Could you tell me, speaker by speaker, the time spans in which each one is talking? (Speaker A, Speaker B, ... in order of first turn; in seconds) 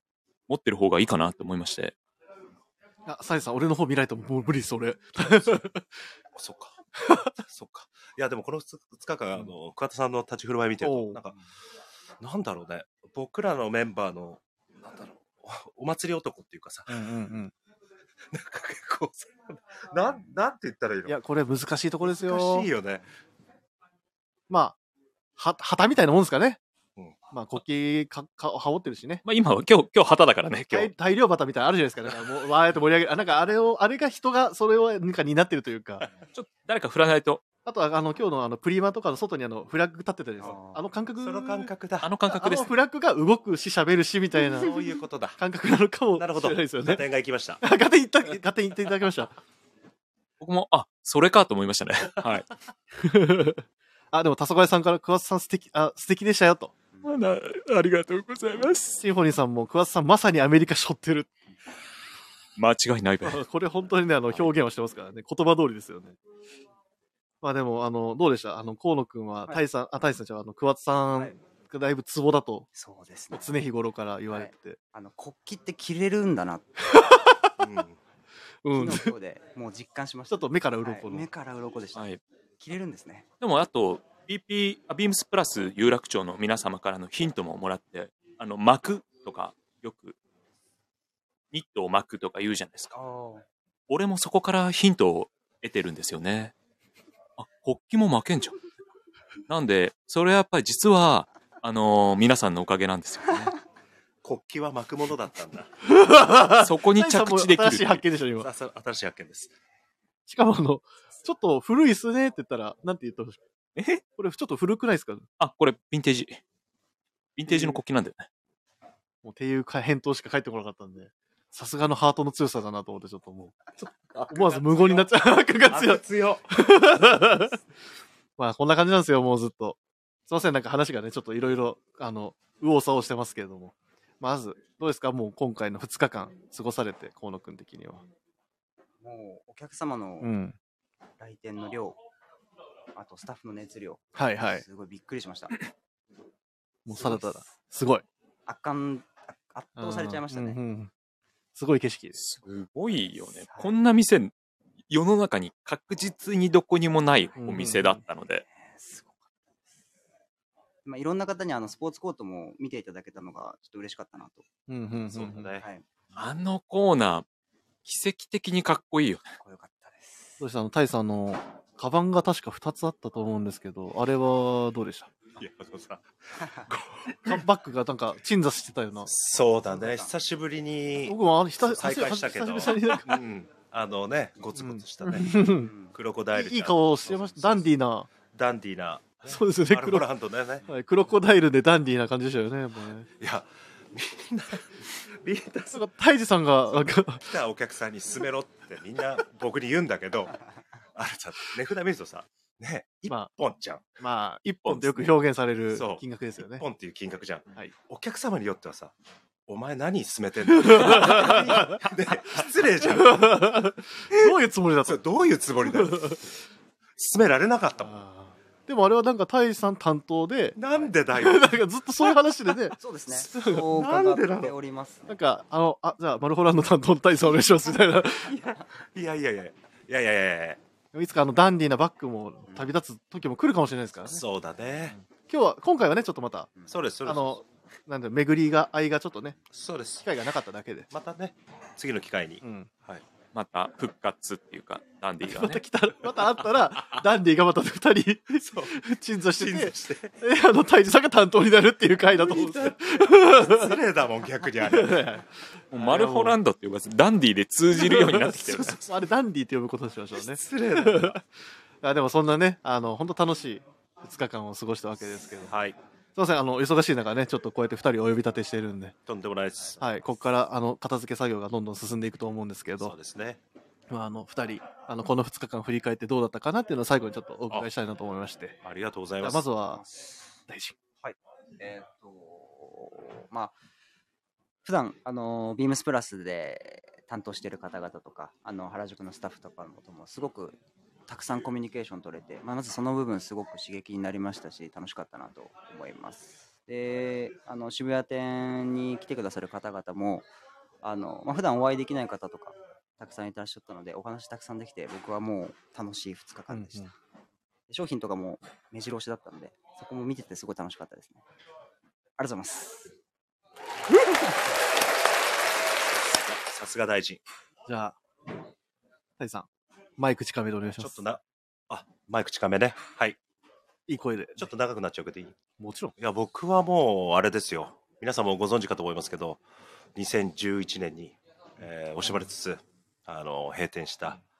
Speaker A: 0.5-1.9, 29.2-30.9, 36.3-37.4, 42.0-42.7, 50.4-52.4, 57.0-59.0, 62.6-63.4, 81.9-82.2, 83.4-90.2, 91.5-92.9, 93.9-96.5, 97.4-98.5, 99.5-103.5, 106.5-108.0, 113.8-114.0, 115.4-116.4, 117.4-118.3, 152.2-154.3, 154.9-158.4, 166.1-167.2, 167.8-169.2, 204.7-205.0, 243.3-245.6, 255.7-258.8
Speaker B: 3.0-5.8, 10.8-11.2, 16.9-17.5, 21.1-22.7, 24.5-24.8, 25.4-26.6, 27.3-29.2, 30.7-36.1, 37.6-41.7, 42.3-44.8, 45.4-47.0, 47.6-49.3, 53.0-56.7, 59.0-61.3, 63.2-66.2, 67.4-72.7, 73.3-74.8, 76.9-77.4, 78.6-79.1, 80.3-81.3, 105.8-108.5, 110.3-113.4, 114.2-115.2, 117.5-117.8, 119.2-123.6, 124.3-127.6, 128.4-129.8, 130.3-138.0, 140.2-140.6, 144.1-144.6, 146.8-148.0, 149.8-150.9, 151.5-152.2, 157.4-158.0, 164.7-165.5, 170.4-175.1, 177.2-179.1, 181.1-183.2, 184.6-185.7, 186.3-188.1, 189.3-190.1, 190.7-193.1, 195.7-197.2, 204.0-206.6, 210.5-211.8, 212.8-215.0, 215.6-216.2, 217.8-220.6, 221.1-223.7, 225.1-228.3, 230.9-234.2, 234.9-236.5, 237.0-239.4, 240.0-240.9, 242.4-242.7, 245.2-253.8, 254.5-256.4, 257.7-261.2, 261.8-265.5, 266.1-268.9, 269.8-272.9, 273.9-278.6, 279.2-279.8, 280.5-280.8, 306.5-306.9, 317.6-318.0, 319.2-319.5, 320.0-321.0, 323.9-324.5, 325.6-325.9
Speaker C: 6.3-6.8, 7.4-11.3, 12.2-17.1, 18.3-21.1, 22.0-23.0, 41.2-42.2, 44.6-45.4, 46.2-47.6, 77.6-78.0, 104.2-105.7, 108.4-109.5, 123.8-125.1, 125.7-126.5, 165.1-165.6, 175.3-177.4, 179.1-185.4, 185.9-187.7, 188.2-190.7, 193.2-195.9, 196.8-200.3, 200.9-203.9, 205.7-206.0, 206.6-208.9, 209.5-213.4, 214.8-216.2, 217.0-217.9, 220.6-221.6, 223.4-224.6, 228.4-230.6, 234.1-234.9, 236.7-237.4, 239.5-240.1, 240.9-243.0, 248.4-248.8, 249.3-250.2, 252.3-255.1, 260.2-261.2, 265.5-265.8, 269.1-269.9, 272.8-273.4, 278.6-279.5, 316.1-317.2, 320.8-323.2, 324.4-325.4, 326.0-329.4, 329.9-334.2
Speaker D: 40.4-40.8, 72.7-73.6, 74.3-76.7, 78.7-83.3, 92.9-93.5, 139.0-140.3, 141.2-142.0, 142.9-145.6, 146.9-147.5, 148.4-150.6, 153.0-153.7, 158.4-159.3, 160.8-164.5, 165.6-165.8, 169.4-170.4, 179.7-180.1, 185.6-185.9, 222.8-225.1, 279.7-280.4, 281.0-283.6, 284.6-300.3, 300.8-306.9, 307.7-311.2, 312.2-312.9